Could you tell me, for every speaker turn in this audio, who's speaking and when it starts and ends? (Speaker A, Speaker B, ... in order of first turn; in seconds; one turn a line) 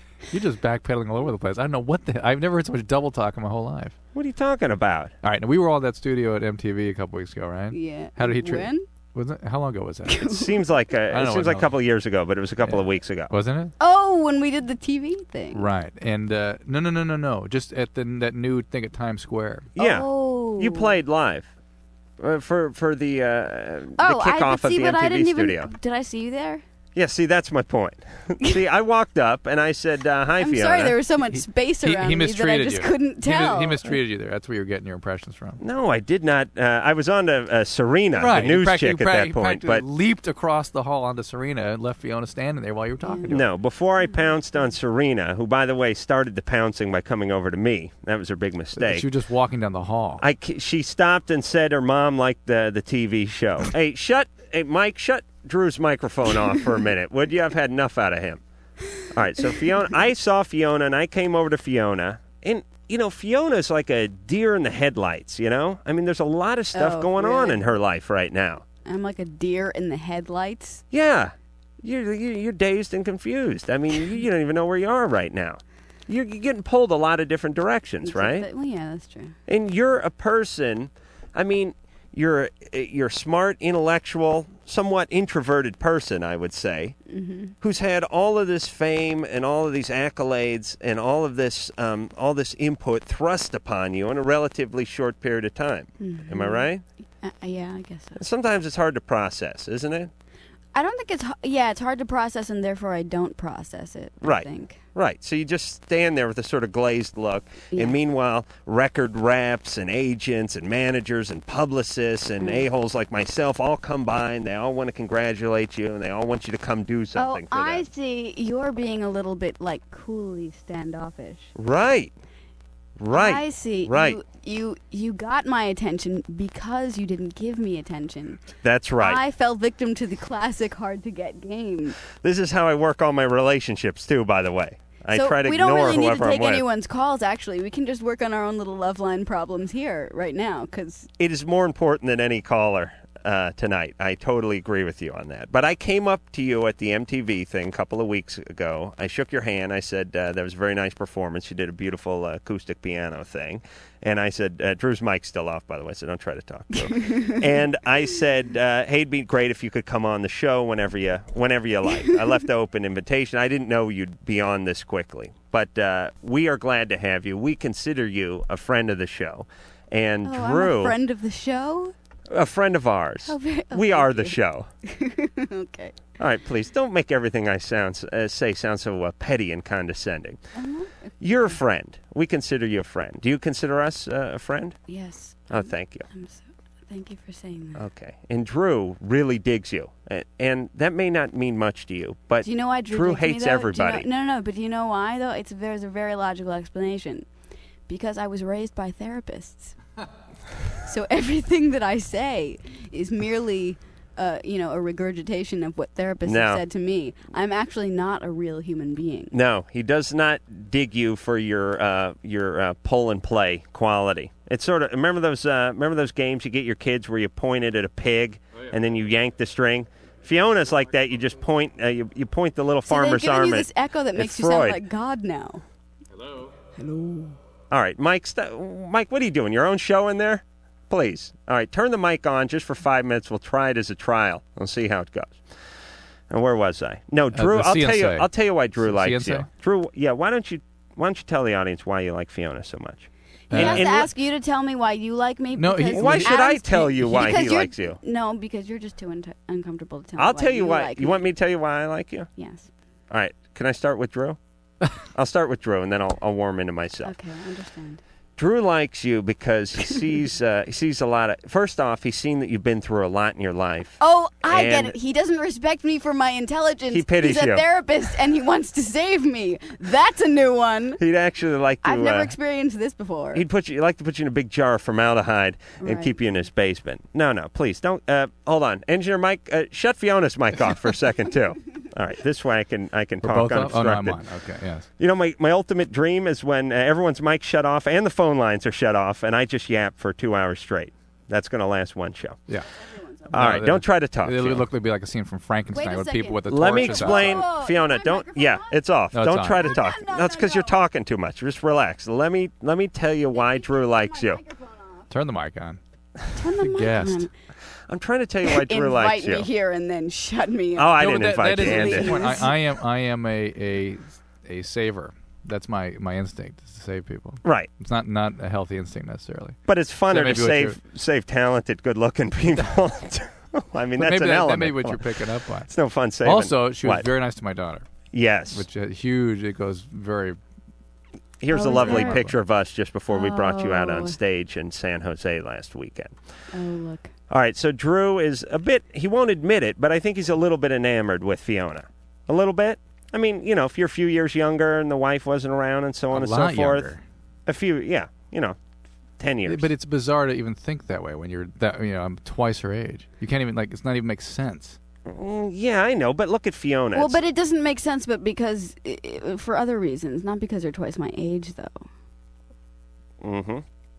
Speaker A: 0.3-4.0
Speaker B: 4.1-5.1
Speaker A: 5.2-10.3
Speaker C: 7.7-8.8
Speaker C: 10.1-10.5
Speaker B: 10.4-13.3
Speaker A: 11.1-11.7
Speaker A: 12.6-13.7
Speaker C: 13.8-15.7
Speaker A: 15.5-19.7
Speaker B: 19.8-21.5
Speaker C: 19.8-20.9
Speaker B: 22.2-25.7
Speaker C: 24.0-26.6
Speaker B: 26.9-31.0
Speaker C: 30.4-34.0
Speaker A: 31.3-35.6
Speaker B: 35.6-39.8
Speaker A: 38.1-43.4
Speaker C: 43.0-43.3
Speaker B: 43.3-49.0
Speaker A: 48.7-50.2
Speaker B: 50.2-58.4
Speaker B: 59.1-68.6
Speaker C: 66.7-67.7
Speaker C: 68.8-70.8
Speaker B: 70.9-78.5
Speaker C: 78.0-79.4
Speaker B: 79.5-87.0
Speaker C: 87.0-87.5
Speaker B: 87.6-96.8
Speaker C: 96.0-96.7
Speaker C: 97.2-98.2
Speaker B: 98.2-100.1
Speaker C: 100.7-104.8
Speaker B: 104.2-117.8
Speaker C: 107.7-108.0
Speaker C: 117.1-121.5
Speaker B: 121.5-122.1
Speaker B: 123.0-124.2
Speaker C: 123.1-128.4
Speaker B: 128.6-129.2
Speaker C: 129.0-132.0
Speaker B: 132.2-136.6
Speaker C: 135.1-141.1
Speaker B: 141.2-171.0
Speaker C: 170.2-171.9
Speaker B: 172.3-174.7
Speaker C: 173.2-176.0
Speaker B: 176.2-180.4
Speaker C: 180.5-181.6
Speaker B: 181.2-184.8
Speaker C: 184.9-187.8
Speaker B: 185.5-186.1
Speaker B: 187.8-194.1
Speaker C: 192.4-197.3
Speaker C: 197.9-199.8
Speaker C: 200.8-209.3
Speaker B: 206.2-206.6
Speaker B: 209.3-224.8
Speaker C: 222.8-225.6
Speaker C: 226.8-227.3
Speaker B: 227.7-235.4
Speaker B: 236.3-244.1
Speaker A: 237.3-239.5
Speaker A: 243.5-244.0
Speaker C: 243.5-251.2
Speaker A: 245.6-247.4
Speaker B: 245.9-248.0
Speaker B: 250.2-252.3
Speaker C: 252.3-252.7
Speaker B: 253.1-254.4
Speaker B: 255.1-257.1
Speaker C: 257.0-258.0
Speaker B: 258.4-264.9
Speaker C: 264.0-271.0
Speaker B: 266.9-267.6
Speaker B: 271.0-272.3
Speaker C: 271.8-273.4
Speaker B: 273.3-284.2
Speaker C: 275.8-276.1
Speaker A: 283.2-284.9
Speaker B: 285.0-292.4
Speaker B: 293.3-294.6
Speaker A: 293.3-297.5
Speaker C: 295.7-298.8
Speaker B: 296.5-304.4
Speaker A: 299.1-299.9
Speaker C: 299.6-300.8
Speaker C: 303.3-305.0
Speaker A: 305.1-305.8
Speaker C: 306.4-307.3
Speaker A: 306.6-307.3
Speaker B: 307.9-309.5
Speaker C: 308.5-312.5
Speaker B: 310.8-312.3
Speaker A: 311.0-319.6
Speaker B: 317.4-317.7
Speaker B: 319.7-325.1
Speaker A: 320.1-320.8
Speaker A: 324.0-325.7
Speaker B: 325.7-327.1
Speaker A: 326.2-327.9
Speaker B: 328.1-328.6
Speaker A: 328.5-330.4
Speaker B: 331.4-336.1
Speaker C: 331.5-332.2
Speaker A: 331.6-332.4
Speaker C: 333.1-334.2
Speaker C: 336.5-337.1
Speaker B: 337.3-346.9
Speaker A: 346.1-347.0
Speaker B: 347.5-348.6
Speaker B: 349.2-349.7
Speaker A: 349.4-354.8
Speaker B: 355.1-357.2
Speaker C: 356.9-361.9
Speaker B: 363.2-363.6